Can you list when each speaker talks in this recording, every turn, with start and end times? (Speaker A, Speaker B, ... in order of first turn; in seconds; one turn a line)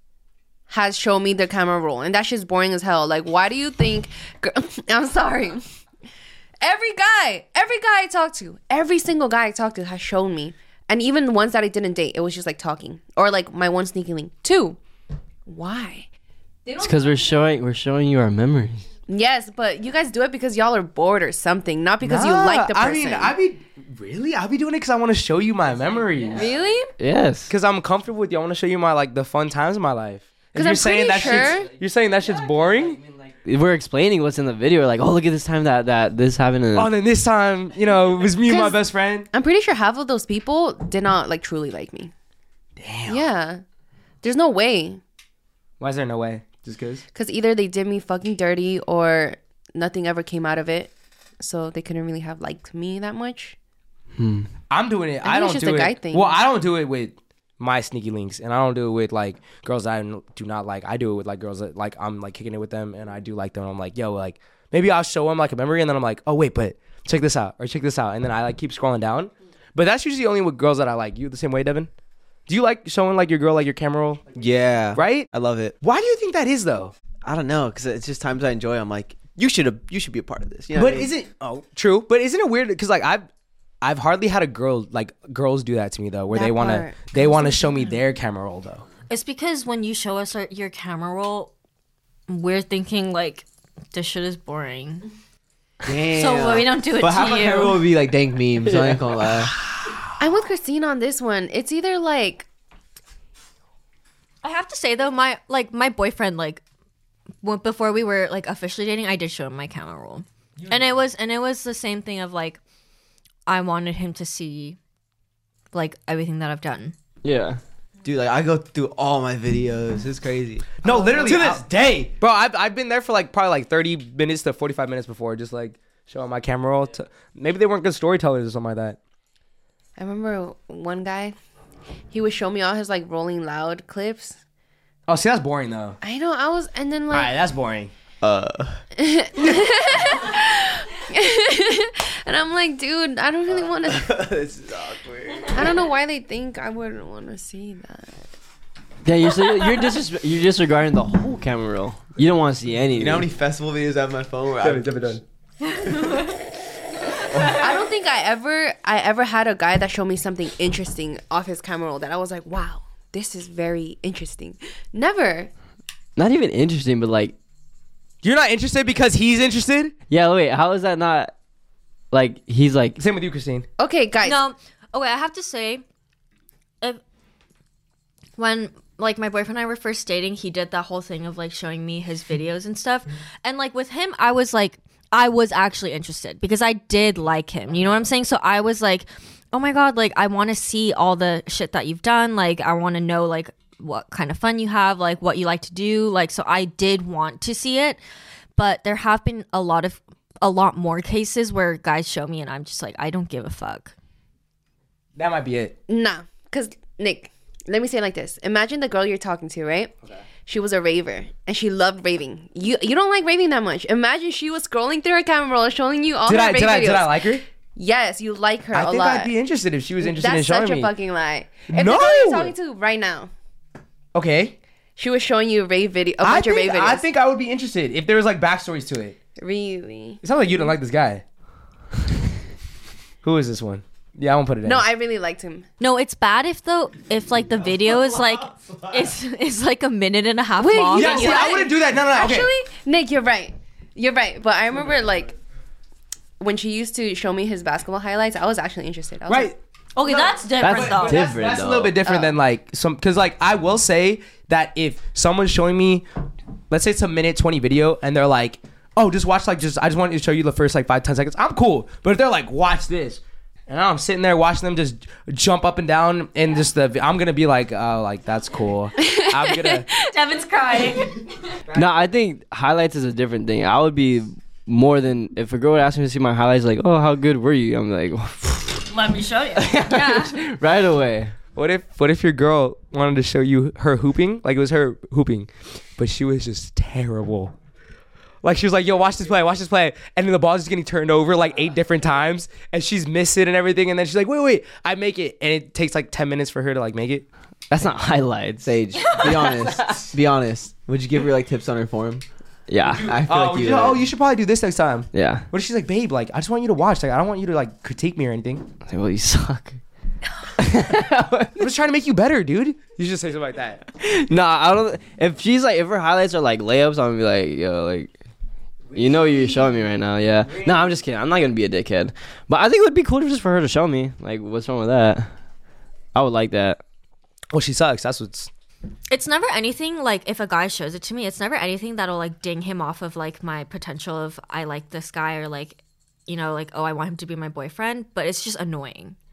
Speaker A: 0.7-5.6
Speaker A: 6.6-14.8
Speaker A: 15.5-16.1
Speaker A: 16.6-17.4
Speaker B: 16.8-18.9
Speaker A: 19.1-23.3
Speaker C: 22.0-26.5
Speaker A: 26.4-26.9
Speaker B: 27.0-27.5
Speaker C: 27.5-33.0
Speaker A: 30.6-31.7
Speaker B: 33.5-36.9
Speaker C: 36.8-39.3
Speaker A: 38.5-38.8
Speaker A: 39.3-42.1
Speaker C: 42.8-43.3
Speaker A: 43.1-43.6
Speaker A: 44.2-45.0
Speaker C: 45.8-47.0
Speaker A: 47.1-53.6
Speaker B: 54.2-54.5
Speaker C: 54.7-71.9
Speaker A: 55.2-56.4
Speaker C: 72.5-74.3
Speaker D: 74.3-75.7
Speaker C: 74.9-75.3
Speaker C: 75.8-76.9
Speaker D: 77.2-81.1
Speaker C: 80.7-83.3
Speaker C: 83.8-88.9
Speaker A: 86.3-88.0
Speaker E: 89.1-91.5
Speaker E: 92.3-95.0
Speaker D: 95.8-99.5
Speaker E: 96.0-97.9
Speaker B: 98.7-99.0
Speaker A: 100.2-102.5
Speaker E: 104.4-106.6
Speaker E: 107.4-112.6
Speaker E: 113.5-114.8
Speaker E: 115.7-117.0
Speaker B: 117.2-117.6
Speaker D: 118.0-121.5
Speaker C: 120.8-129.0
Speaker A: 120.8-121.5
Speaker A: 130.0-131.3
Speaker A: 132.1-134.4
Speaker C: 135.1-136.0
Speaker A: 136.0-137.3
Speaker C: 137.1-137.9
Speaker D: 138.2-138.8
Speaker A: 139.0-144.3
Speaker D: 143.5-145.8
Speaker A: 145.5-148.3
Speaker B: 149.0-153.3
Speaker D: 153.0-155.2
Speaker C: 154.6-155.2
Speaker D: 157.3-157.6
Speaker A: 157.5-165.5
Speaker B: 166.2-167.3
Speaker C: 168.2-169.9
Speaker B: 170.1-171.3
Speaker B: 172.1-173.0
Speaker C: 173.0-173.7
Speaker A: 173.8-174.4
Speaker E: 174.2-175.8
Speaker E: 178.4-198.0
Speaker E: 198.6-203.9
Speaker C: 205.2-205.8
Speaker A: 205.9-209.9
Speaker A: 210.5-219.3
Speaker C: 216.2-217.4
Speaker C: 218.7-220.9
Speaker A: 220.0-223.3
Speaker C: 221.7-222.5
Speaker C: 224.1-224.6
Speaker A: 225.0-227.0
Speaker C: 226.2-229.2
Speaker A: 229.4-230.2
Speaker C: 230.2-231.2
Speaker C: 233.2-234.8
Speaker A: 234.6-235.7
Speaker E: 235.8-241.6
Speaker D: 237.9-239.1
Speaker A: 240.6-245.3
Speaker C: 240.9-242.5
Speaker A: 246.4-249.5
Speaker C: 249.3-256.1
Speaker E: 250.0-251.3
Speaker B: 250.6-252.0
Speaker A: 252.1-252.3
Speaker C: 256.7-269.9
Speaker A: 269.0-269.9
Speaker E: 270.1-271.3
Speaker C: 271.7-272.0
Speaker B: 271.8-278.9
Speaker E: 278.9-280.4
Speaker B: 279.6-281.4
Speaker C: 281.6-287.5
Speaker C: 288.4-297.2
Speaker B: 297.7-300.1
Speaker D: 298.6-302.2
Speaker E: 298.9-299.8
Speaker B: 302.7-303.1
Speaker C: 302.9-308.7
Speaker D: 302.9-304.1
Speaker B: 305.1-305.5
Speaker B: 308.9-309.8
Speaker B: 310.6-311.7
Speaker C: 311.6-313.8
Speaker B: 314.0-318.1
Speaker B: 318.9-325.3
Speaker B: 326.1-326.8
Speaker C: 327.5-328.5
Speaker E: 329.1-339.2